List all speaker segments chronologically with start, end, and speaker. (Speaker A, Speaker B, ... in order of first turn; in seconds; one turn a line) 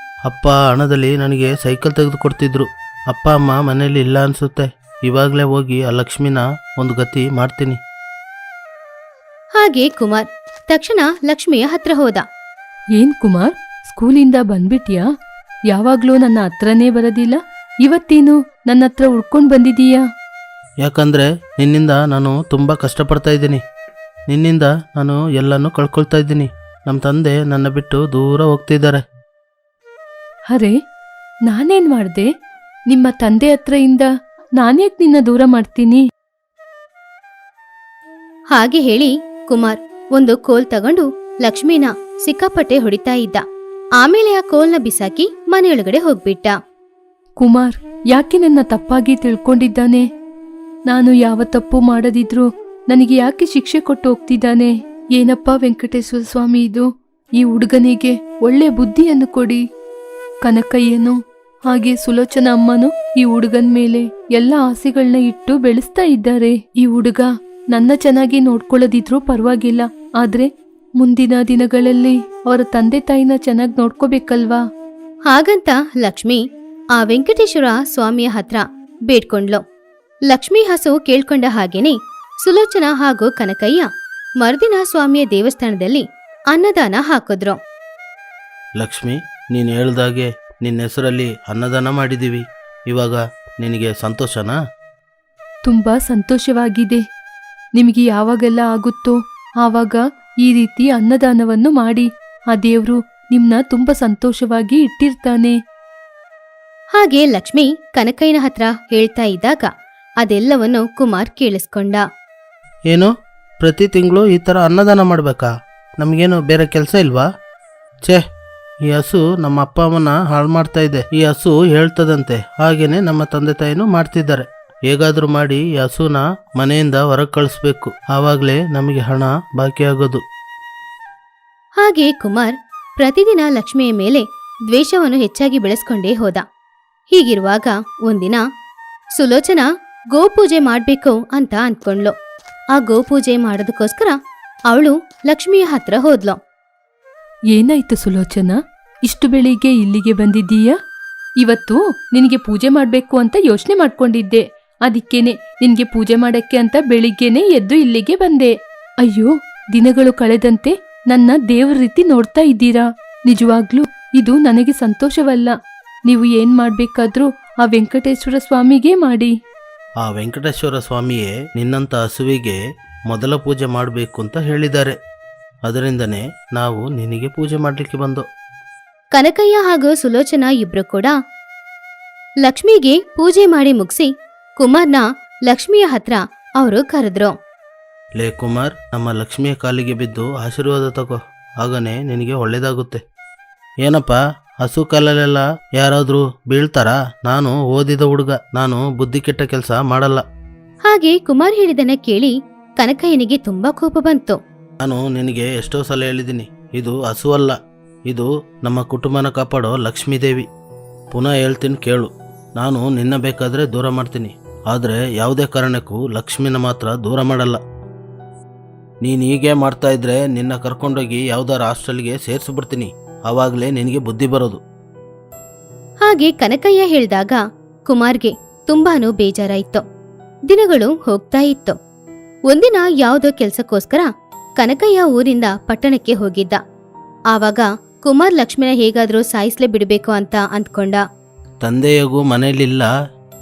Speaker A: 0.3-7.8
Speaker B: 9.6-12.2
Speaker C: 12.9-15.0
Speaker C: 15.7-20.0
Speaker A: 20.8-23.6
Speaker A: 24.3-29.0
Speaker C: 31.5-32.2
Speaker C: 32.9-34.1
Speaker C: 34.6-36.0
Speaker B: 38.5-43.4
Speaker B: 44.0-46.5
Speaker C: 47.4-50.0
Speaker C: 50.9-56.9
Speaker C: 57.4-59.6
Speaker C: 60.4-61.1
Speaker C: 61.7-70.5
Speaker C: 71.0-74.6
Speaker B: 75.3-76.4
Speaker B: 77.0-79.6
Speaker B: 80.3-81.9
Speaker B: 82.4-83.9
Speaker B: 84.4-87.5
Speaker A: 88.8-94.5
Speaker C: 95.7-97.0
Speaker C: 97.8-105.5
Speaker B: 107.0-109.7
Speaker B: 110.2-112.0
Speaker A: 113.6-115.5
Speaker A: 116.0-117.2
Speaker A: 118.9-130.2
Speaker B: 131.8-136.4
Speaker B: 137.1-138.4
Speaker B: 139.2-142.1
Speaker B: 142.8-144.1
Speaker B: 144.7-146.4
Speaker C: 147.5-148.5
Speaker C: 149.1-150.7
Speaker C: 151.4-158.5
Speaker C: 159.0-165.5
Speaker C: 166.1-169.3
Speaker A: 170.0-174.9
Speaker A: 175.7-178.2
Speaker B: 179.1-181.1
Speaker B: 182.4-187.3
Speaker A: 188.2-193.0
Speaker A: 193.8-200.2
Speaker B: 200.9-204.4
Speaker A: 204.8-207.6
Speaker A: 208.1-210.4
Speaker A: 211.1-217.6
Speaker A: 219.0-224.6
Speaker B: 226.1-229.8
Speaker B: 230.5-231.8
Speaker B: 232.5-234.1
Speaker B: 234.6-236.6
Speaker B: 237.3-241.0
Speaker A: 241.6-242.9